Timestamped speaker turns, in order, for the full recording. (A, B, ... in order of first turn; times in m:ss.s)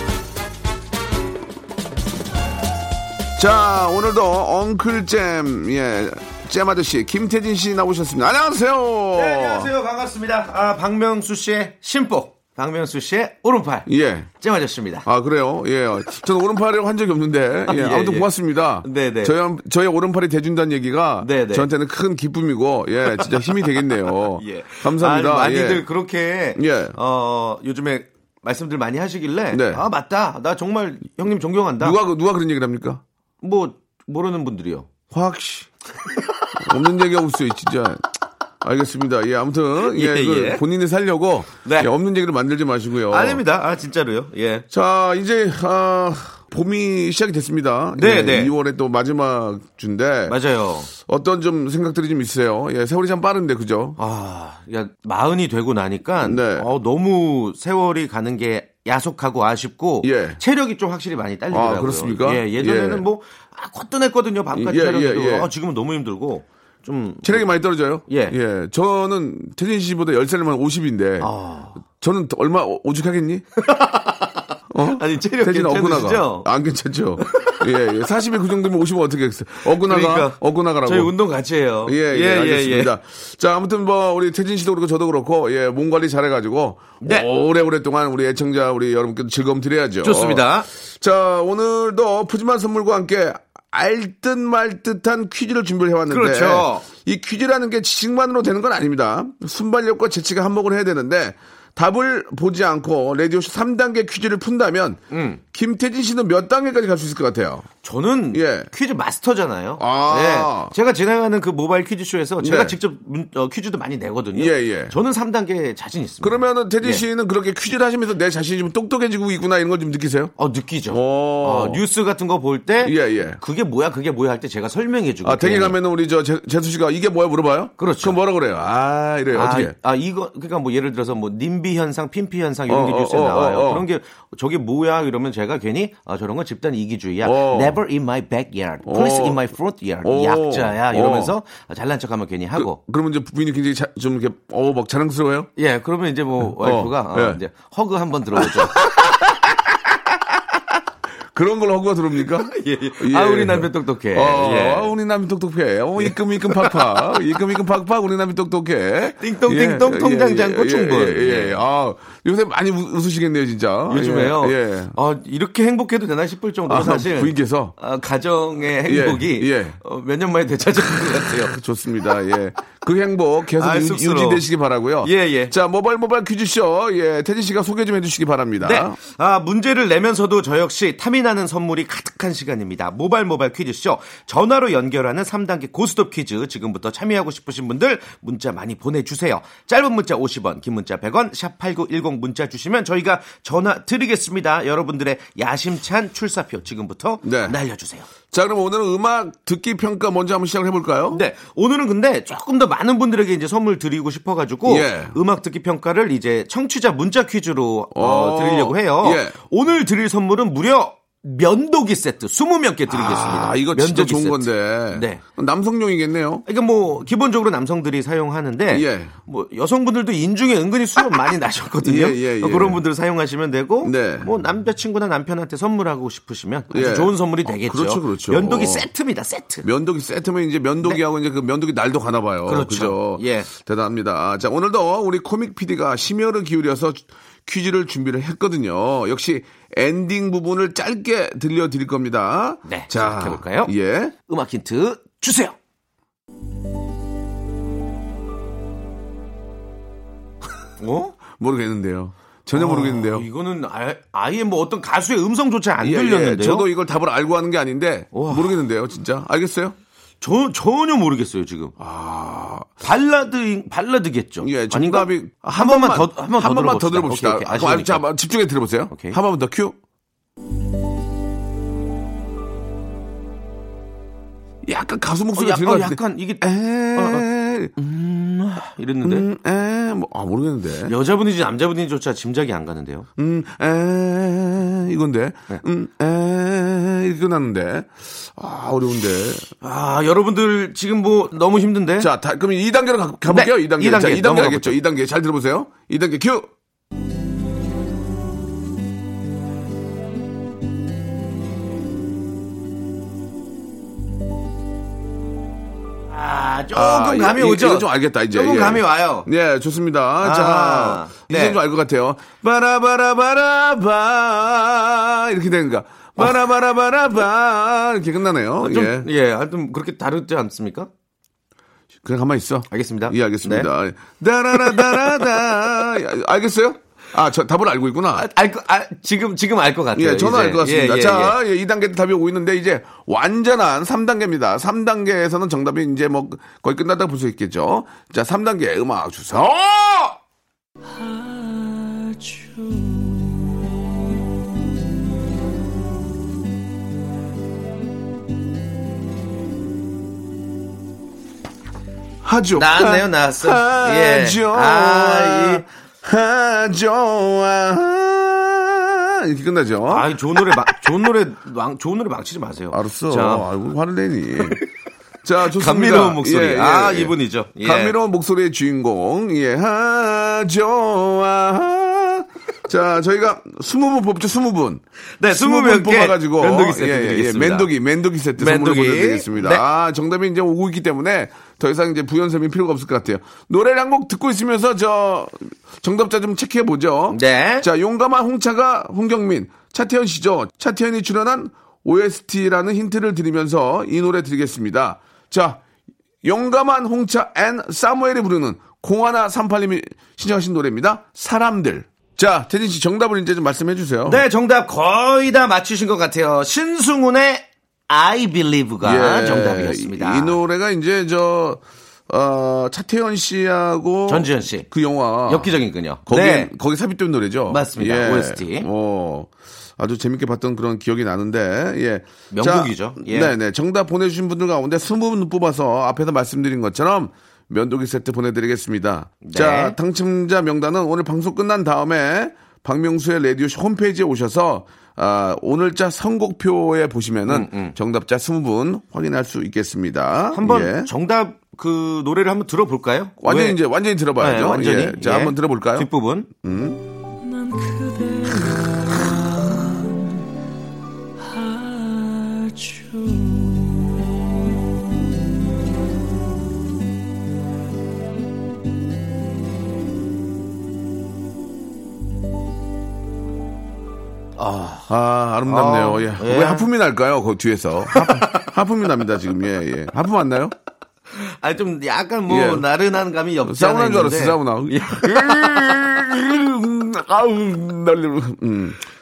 0:03.4-0:09.7 A
0:09.1-0:15.1 B
0:13.9-0:14.3 A
0:15.0-0:25.9 A
0:17.7-0:18.3 B
0:18.8-0:19.4 B
0:21.2-0:21.7 B
0:23.1-0:32.0 B
0:26.6-0:27.0 A
0:29.5-0:29.8 A
0:31.8-0:33.0 A
0:33.4-0:34.9 B
0:35.1-0:35.7 A
0:36.6-0:38.0 A
0:38.6-0:43.4 A
0:39.9-0:40.6 B
0:41.6-0:41.9 B
0:43.1-0:44.7 B
0:44.7-0:50.4 A
0:48.0-0:48.5 B
0:50.3-0:50.9 B
0:51.0-0:54.0 A
0:54.0-1:07.5 B
0:56.2-0:56.7 A
1:00.0-1:00.4 A
1:01.5-1:03.0 A
1:04.5-1:05.5 A
1:07.2-1:11.3 A
1:08.1-1:08.4 B
1:11.2-1:11.8 B
1:11.8-1:13.4 A
1:13.6-1:16.5 B
1:14.7-1:21.1 A
1:17.2-1:17.6 B
1:19.8-1:22.9 B
1:21.8-1:47.7 A
1:27.0-1:27.3 B
1:30.0-1:30.7 B
1:36.1-1:36.8 B
1:45.1-1:45.4 B
1:47.8-1:57.0 B
1:48.3-1:48.7 A
1:49.8-1:50.7 A
1:52.4-1:52.8 A
1:54.4-1:55.0 A
1:56.2-2:00.3 A
2:00.4-2:05.8 B
2:00.9-2:01.8 A
2:02.8-2:03.4 A
2:05.2-2:09.7 A
2:07.8-2:08.2 B
2:09.3-2:22.8 B
2:12.7-2:13.9 A
2:17.2-2:17.8 A
2:18.9-2:19.5 A
2:20.0-2:21.3 A
2:22.6-2:25.5 A
2:25.6-2:28.8 B
2:26.4-2:27.4 A
2:28.4-2:30.6 A
2:31.3-2:44.9 A
2:32.5-2:34.9 B
2:36.0-2:37.4 B
2:39.2-2:41.6 B
2:43.9-2:51.6 B
2:46.7-2:47.8 A
2:48.8-2:49.8 A
2:51.5-2:59.0 A
2:53.6-2:54.4 B
2:55.0-2:55.6 B
2:58.6-3:18.1 B
3:17.2-3:17.6 A
3:18.3-3:21.2 A
3:21.1-3:35.2 B
3:24.7-3:25.2 A
3:27.9-3:29.4 A
3:32.9-3:36.4 A
3:36.5-3:49.7 B
3:38.7-3:39.2 A
3:41.8-3:42.8 A
3:43.8-3:44.3 A
3:46.7-3:48.9 A
3:49.6-4:04.1 A
3:52.5-3:53.5 B
4:02.7-4:03.7 B
4:04.3-4:05.6 B
4:10.8-4:11.2 B
4:11.3-4:13.3 A
4:12.5-4:16.7 B
4:15.8-4:19.8 A
4:18.1-4:18.6 B
4:20.2-4:21.8 B
4:21.8-4:22.8 A
4:22.8-4:28.0 B
4:24.4-4:29.8 A
4:28.9-4:29.2 B
4:34.6-4:37.7 A
4:35.4-4:39.3 B
4:39.0-4:40.9 A
4:40.9-4:43.1 B
4:43.2-4:49.5 A
4:49.6-4:52.1 B
4:52.0-4:56.5 A
4:53.3-4:54.8 B
5:06.1-5:09.3 B
5:06.8-5:19.1 A
5:10.2-5:11.6 B
5:18.6-5:20.9 B
5:22.0-5:28.3 A
5:22.7-5:23.7 B
5:24.5-5:25.3 B
5:28.2-5:31.4 B
5:29.9-5:40.2 A
5:41.2-5:41.5 C
5:52.2-6:00.7 A
5:52.6-5:55.6 B
5:59.9-6:03.5 B
6:02.7-6:04.6 A
6:05.2-6:35.6 A
6:05.4-6:08.0 B
6:15.2-6:17.7 B
6:18.4-6:19.6 B
6:27.1-6:27.7 B
6:36.2-6:44.2 A
6:44.1-6:50.4 B
6:48.8-6:55.5 A
6:54.1-6:54.7 B
6:55.3-6:56.5 B
6:56.1-7:20.9 A
6:57.5-6:58.7 B
7:02.3-7:03.3 B
7:09.2-7:09.8 B
7:17.3-7:17.8 B
7:20.3-7:23.6 B
7:23.2-7:26.8 A
7:24.2-7:26.3 B
7:27.3-7:28.9 C
7:44.4-7:44.9 B
7:44.9-7:50.5 A
7:45.5-7:46.7 B
7:47.9-7:48.5 B
7:51.1-7:55.8 B
7:52.3-7:52.7 A
7:53.4-7:58.8 A